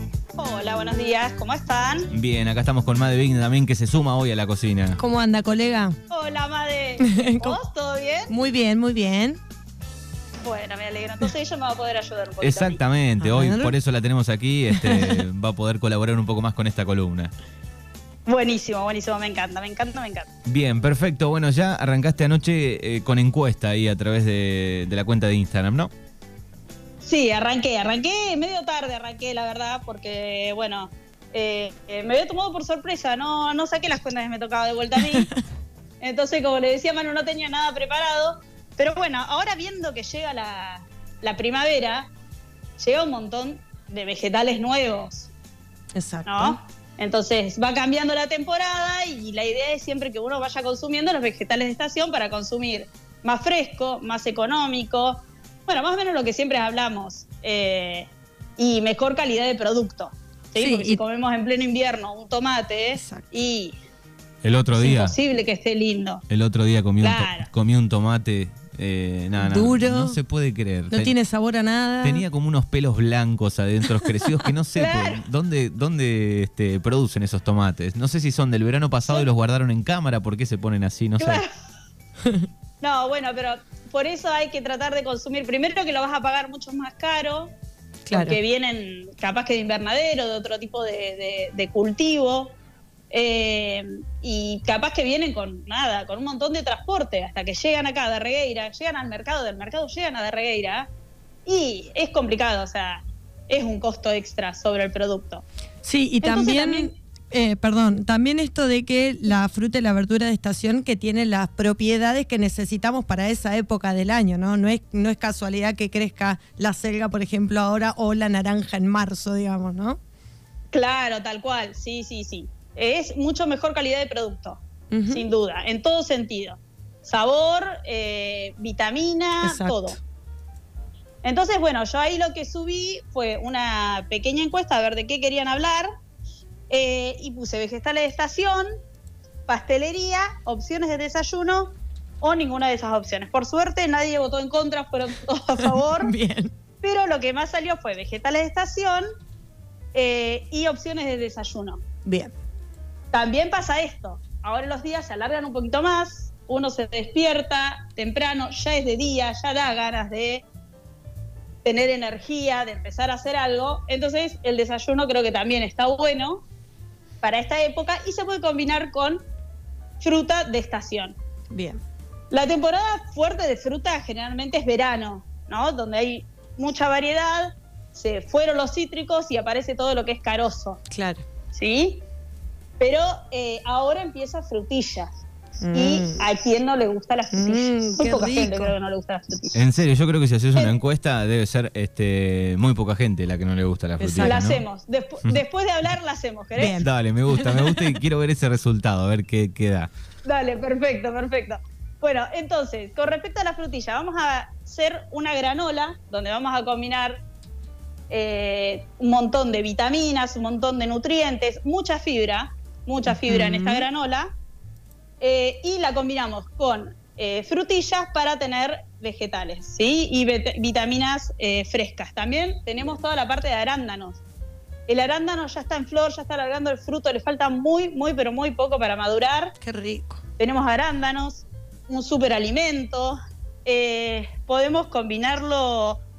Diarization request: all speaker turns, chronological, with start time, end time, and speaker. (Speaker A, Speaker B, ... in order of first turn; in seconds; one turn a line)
Speaker A: 0.4-2.1
Speaker B: 2.1-5.0
Speaker C: 5.0-6.0
Speaker A: 6.1-8.3
Speaker C: 7.0-7.6
Speaker C: 8.3-9.4
Speaker A: 10.4-12.8
Speaker B: 12.4-17.3
Speaker C: 13.2-13.7
Speaker C: 14.7-15.2
Speaker A: 18.2-20.3
Speaker B: 20.4-25.9
Speaker A: 27.0-35.3
Speaker C: 35.0-35.3
Speaker A: 36.0-42.1
Speaker A: 42.8-45.3
Speaker C: 45.9-46.6
Speaker A: 46.2-63.8
Speaker C: 60.6-61.0
Speaker C: 62.9-63.3
Speaker B: 64.4-65.1
Speaker A: 64.8-66.2
Speaker B: 66.3-71.2
Speaker A: 67.0-67.5
Speaker C: 69.4-70.2
Speaker C: 70.9-72.2
Speaker B: 72.0-81.4
Speaker A: 74.8-75.2
Speaker A: 81.2-81.5
Speaker A: 82.8-87.5
Speaker C: 88.0-88.4
Speaker A: 88.1-92.5
Speaker A: 93.1-100.9
Speaker A: 101.5-105.4
Speaker C: 105.8-120.0
Speaker A: 106.2-106.9
Speaker A: 120.7-130.0
Speaker C: 124.9-125.3
Speaker C: 129.4-130.0
Speaker A: 131.2-135.9
Speaker A: 136.7-138.7
Speaker A: 139.5-146.1
Speaker C: 145.6-146.5
Speaker A: 146.8-149.0
Speaker A: 149.9-151.8
Speaker C: 152.1-152.3
Speaker A: 153.1-160.4
Speaker A: 161.6-166.4
Speaker A: 167.2-169.2
Speaker A: 170.0-171.2
Speaker C: 171.5-171.8
Speaker A: 172.3-180.8
Speaker C: 180.9-181.2
Speaker A: 181.5-182.0
Speaker A: 182.8-185.1
Speaker C: 185.6-186.2
Speaker A: 185.7-189.6
Speaker C: 187.3-188.7
Speaker B: 189.5-194.6
Speaker C: 194.0-194.4
Speaker A: 194.2-196.8
Speaker C: 196.6-197.9
Speaker B: 196.6-199.9
Speaker A: 200.2-207.2
Speaker A: 208.1-214.3
Speaker C: 213.1-213.8
Speaker A: 215.2-224.2
Speaker A: 224.9-229.5
Speaker C: 229.6-230.2
Speaker A: 230.4-236.0